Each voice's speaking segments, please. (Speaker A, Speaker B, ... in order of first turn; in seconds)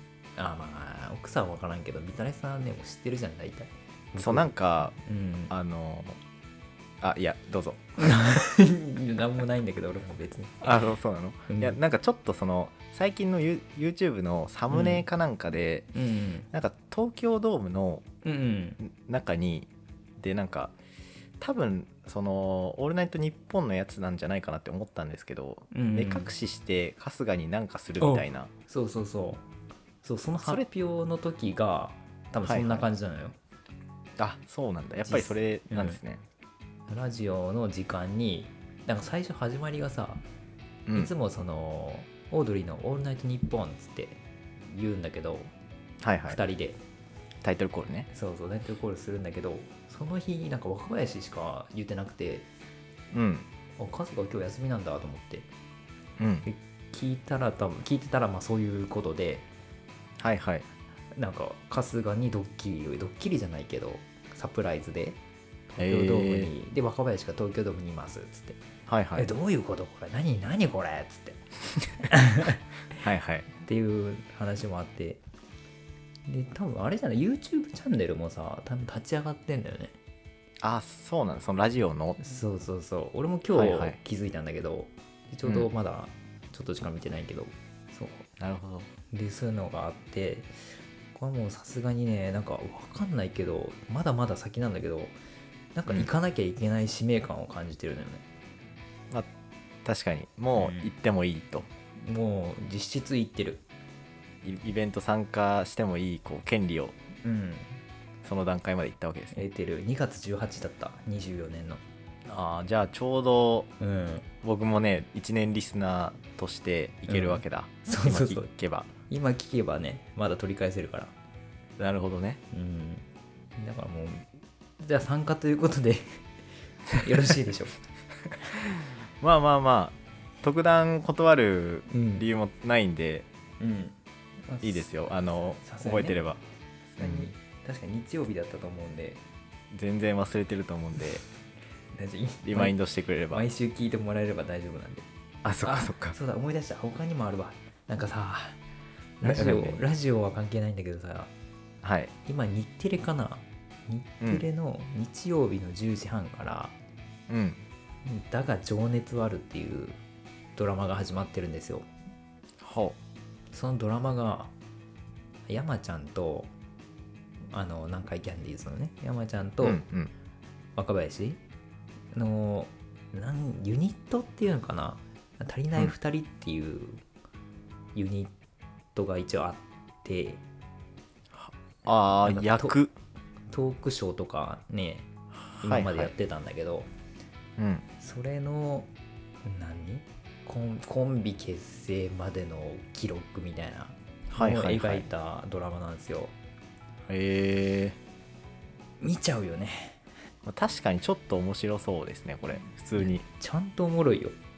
Speaker A: 0.4-5.5, 8.0-10.7, 11.5-11.8, 14.7-15.1, 15.9-16.5, 18.2-18.8, 25.7-26.3, 28.0-29.4, 30.0-33.4, 35.1-36.0, 36.9-40.2, 40.9-45.5, 46.3-46.8, 48.1-52.5, 53.8-55.5, 56.5-59.5, 61.2-65.2, 65.7-68.6, 69.2-71.5, 72.0-72.6, 73.6-75.2, 76.3-80.0, 82.2-88.3, 89.1-90.5, 91.1-95.2, 95.8-98.2, 100.6-100.9, 102.0-103.6, 107.2-107.8, 109.3-111.8, 113.8-114.3, 117.1-118.5, 119.1-121.1, 122.5-123.0, 123.6-126.2, 126.9-127.8, 131.9-132.3, 133.6-134.9, 135.6-136.2, 137.0-139.2, 141.9-142.8, 143.3-145.1, 145.6-148.6, 149.2-151.3, 152.3-156.8, 158.1-160.0, 160.6-161.9, 163.5-164.5, 165.5-166.5, 167.5-169.8, 170.8-171.4, 172.1-177.0, 177.9-178.3, 178.9-180.4, 182.2-182.8, 183.5-185.1, 185.6-186.9, 188.0-188.9, 189.4-196.3, 199.0-200.0, 203.0-204.4
Speaker B: 4.1-5.0, 5.5-6.2, 7.0-7.8, 10.6-15.9, 16.5-18.0, 18.8-20.7, 21.4-28.5, 32.5-32.9, 34.2-36.2, 40.9-41.1, 46.0-46.4, 47.4-48.1, 53.1-53.5, 56.2-56.5, 60.2-60.7, 65.8-66.5, 68.9-69.3, 73.0-73.5, 80.6-82.2, 83.5-84.0, 85.5-85.7, 88.4-88.9, 99.8-101.7, 104.4-107.0, 108.2-109.4, 112.3-113.7, 114.4-118.9, 121.8-122.4, 129.2-133.3, 134.6-136.4, 137.0-137.3, 139.7-141.2, 142.4-143.4, 145.4-146.2, 149.2-149.8, 151.8-152.1, 157.3-157.6, 162.6-163.0, 169.6-170.1, 181.3-182.9, 185.5-186.1, 187.6-187.8, 194.3-195.1, 197.1-198.0, 200.4-203.2